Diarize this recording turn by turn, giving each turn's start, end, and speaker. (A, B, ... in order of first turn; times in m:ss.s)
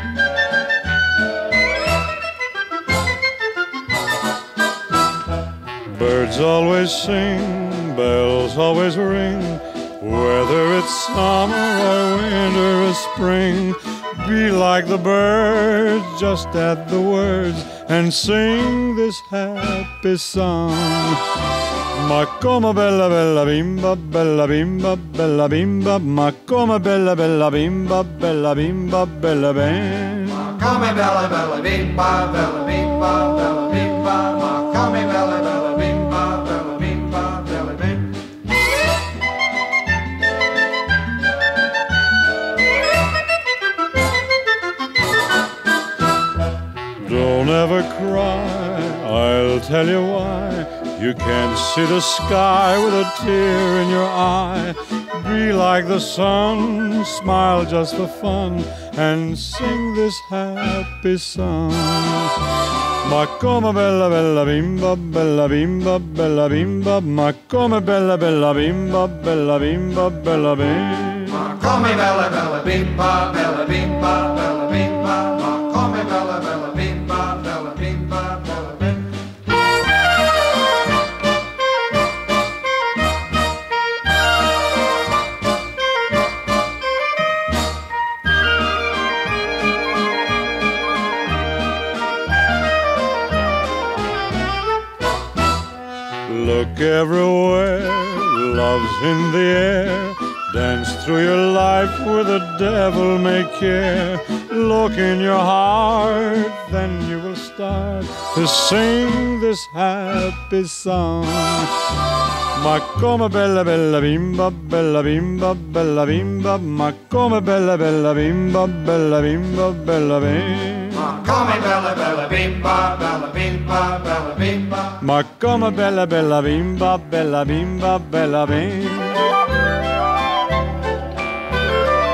0:05.8-0:21.4 A
0:21.9-0:30.5 A
0:30.4-0:38.1 B
0:47.0-1:11.5 A
1:11.4-1:19.0 B
1:36.2-1:51.9 A
1:52.5-2:01.2 A
2:01.2-2:04.9 B
2:04.9-2:09.4 A